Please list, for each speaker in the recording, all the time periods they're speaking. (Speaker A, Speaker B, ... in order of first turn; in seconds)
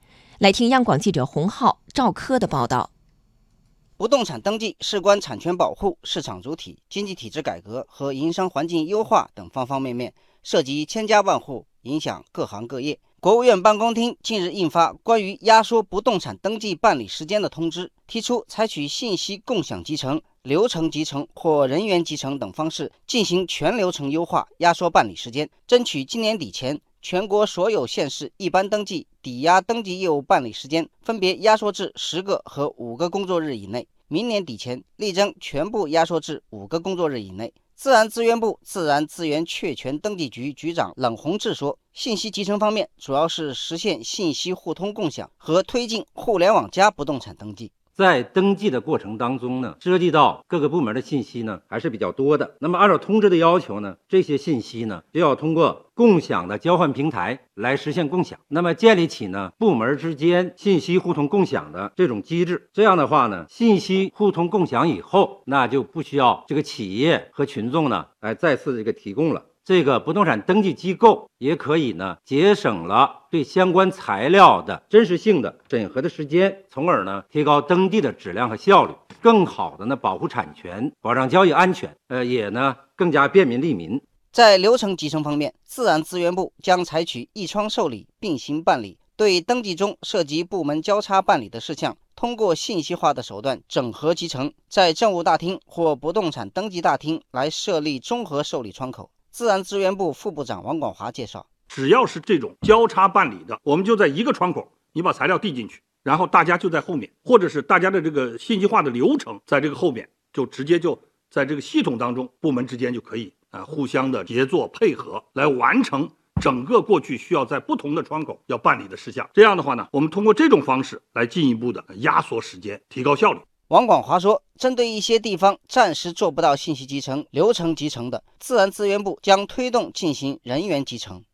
Speaker A: 0.4-2.9
Speaker B: 4.0-47.7, 84.3-101.5, 123.7-131.2
Speaker C: 48.0-84.0
Speaker D: 101.7-123.4